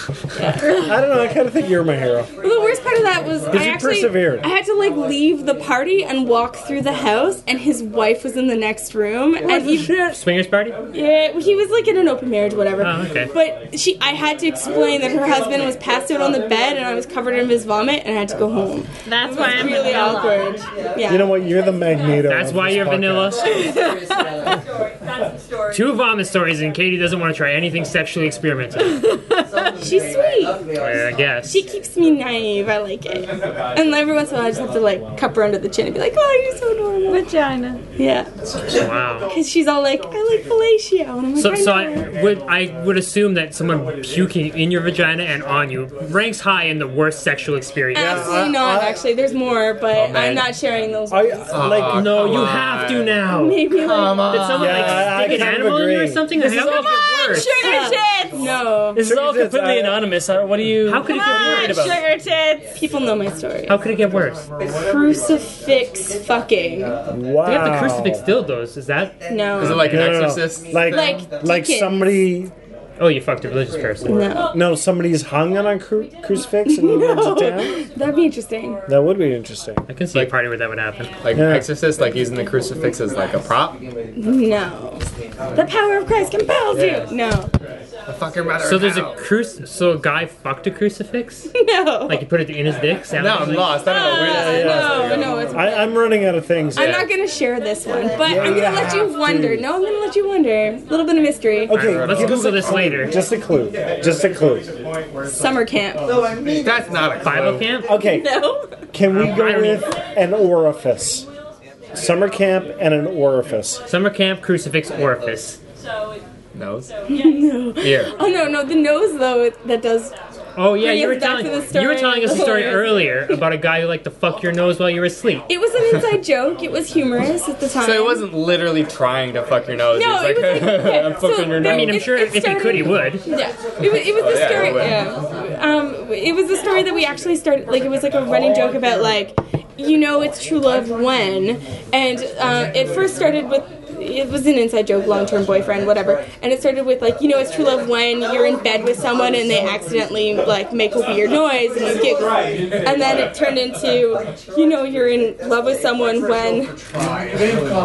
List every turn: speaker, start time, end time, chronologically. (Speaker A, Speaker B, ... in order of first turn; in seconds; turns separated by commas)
Speaker A: 0.3-0.8, Speaker B: 0.7-2.3, Speaker A: 2.4-10.0, Speaker B: 3.5-4.5, Speaker B: 9.5-10.2, Speaker C: 9.7-10.8, Speaker A: 10.9-21.3, Speaker C: 12.8-13.3, Speaker D: 19.1-20.6, Speaker B: 21.1-23.5, Speaker C: 22.2-23.5, Speaker C: 25.7-29.1, Speaker A: 29.8-30.6, Speaker C: 30.8-31.6, Speaker A: 31.4-37.2, Speaker D: 37.1-37.8, Speaker A: 38.0-38.3, Speaker C: 38.7-39.3, Speaker A: 39.3-42.1, Speaker C: 41.4-48.5, Speaker A: 47.9-51.3, Speaker B: 47.9-49.0, Speaker E: 50.1-50.4, Speaker B: 51.1-52.2, Speaker E: 51.5-53.2, Speaker C: 51.8-53.6, Speaker A: 53.3-55.0, Speaker E: 53.7-55.2, Speaker C: 54.3-57.7, Speaker B: 54.6-56.2, Speaker F: 56.4-57.5, Speaker D: 56.8-58.4, Speaker A: 57.2-59.1, Speaker F: 59.0-62.0, Speaker B: 59.0-60.0, Speaker C: 60.8-61.9, Speaker D: 61.0-62.7, Speaker A: 62.8-63.8, Speaker C: 63.7-64.4, Speaker A: 64.8-67.0, Speaker B: 67.1-68.2, Speaker C: 67.4-70.1, Speaker A: 69.3-70.2, Speaker E: 69.6-71.1, Speaker B: 69.8-72.5, Speaker A: 70.8-72.2, Speaker C: 73.0-74.2, Speaker A: 74.0-74.5, Speaker B: 74.4-77.8, Speaker A: 76.7-78.8, Speaker B: 78.9-79.8, Speaker C: 79.9-81.2, Speaker E: 81.2-83.8, Speaker B: 81.3-81.7, Speaker A: 84.2-85.0, Speaker A: 85.5-87.5, Speaker E: 86.7-87.1, Speaker E: 88.1-89.2, Speaker C: 88.6-91.5, Speaker A: 91.6-92.2, Speaker C: 92.0-93.8, Speaker E: 93.2-95.4, Speaker A: 93.8-95.9, Speaker B: 95.5-97.0, Speaker A: 96.7-101.8, Speaker E: 96.8-97.1, Speaker B: 98.2-99.6, Speaker B: 101.7-104.7, Speaker C: 101.7-103.1, Speaker E: 101.9-102.6, Speaker A: 105.2-106.1, Speaker E: 106.6-107.8, Speaker C: 107.2-107.9, Speaker B: 107.8-108.4, Speaker A: 108.0-108.6, Speaker B: 108.9-111.3, Speaker C: 109.1-109.9, Speaker B: 111.9-113.8, Speaker C: 113.9-115.6, Speaker E: 116.5-116.9, Speaker A: 117.1-120.1, Speaker E: 117.8-118.1, Speaker C: 120.5-125.5, Speaker A: 120.8-123.4, Speaker A: 125.5-128.3, Speaker E: 127.8-132.1, Speaker A: 129.9-156.8, Speaker C: 131.6-133.2, Speaker E: 133.9-135.1